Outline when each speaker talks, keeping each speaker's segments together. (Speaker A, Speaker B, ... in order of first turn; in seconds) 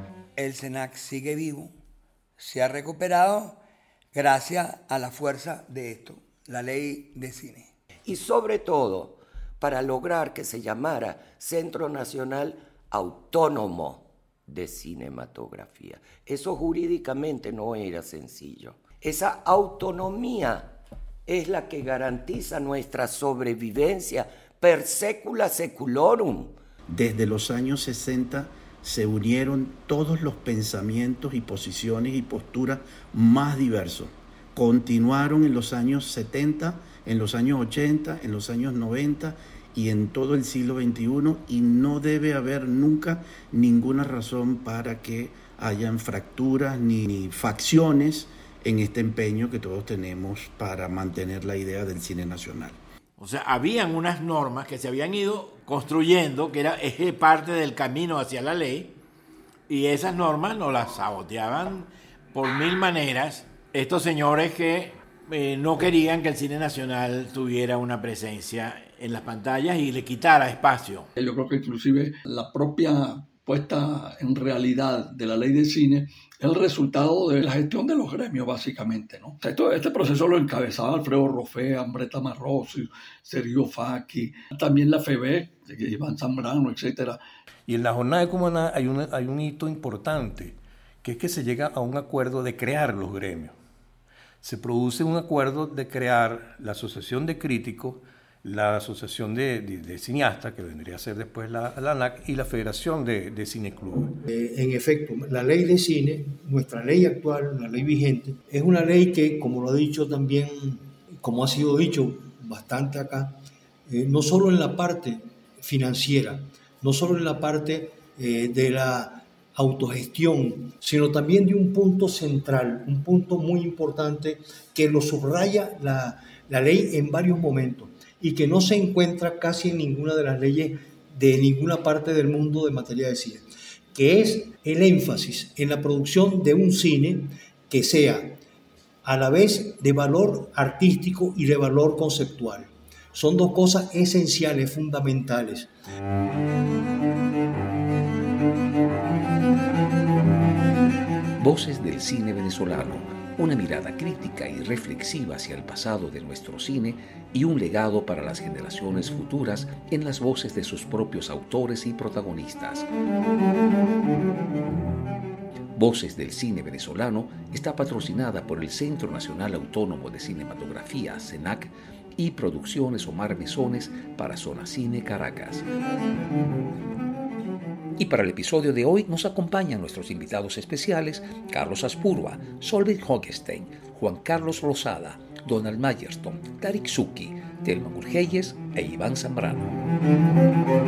Speaker A: 0.4-1.7, 2.4-3.6, 4.1-7.7
Speaker B: 8.0-20.7, 21.3-26.5
Speaker C: 26.9-52.8
Speaker D: 53.2-58.9, 59.7-71.1
Speaker E: 71.2-87.2
Speaker F: 87.7-93.5, 94.4-104.2
Speaker G: 104.3-113.3, 113.9-138.4, 139.0-145.7
Speaker H: 151.4-162.8, 165.7-175.6, 178.0-189.7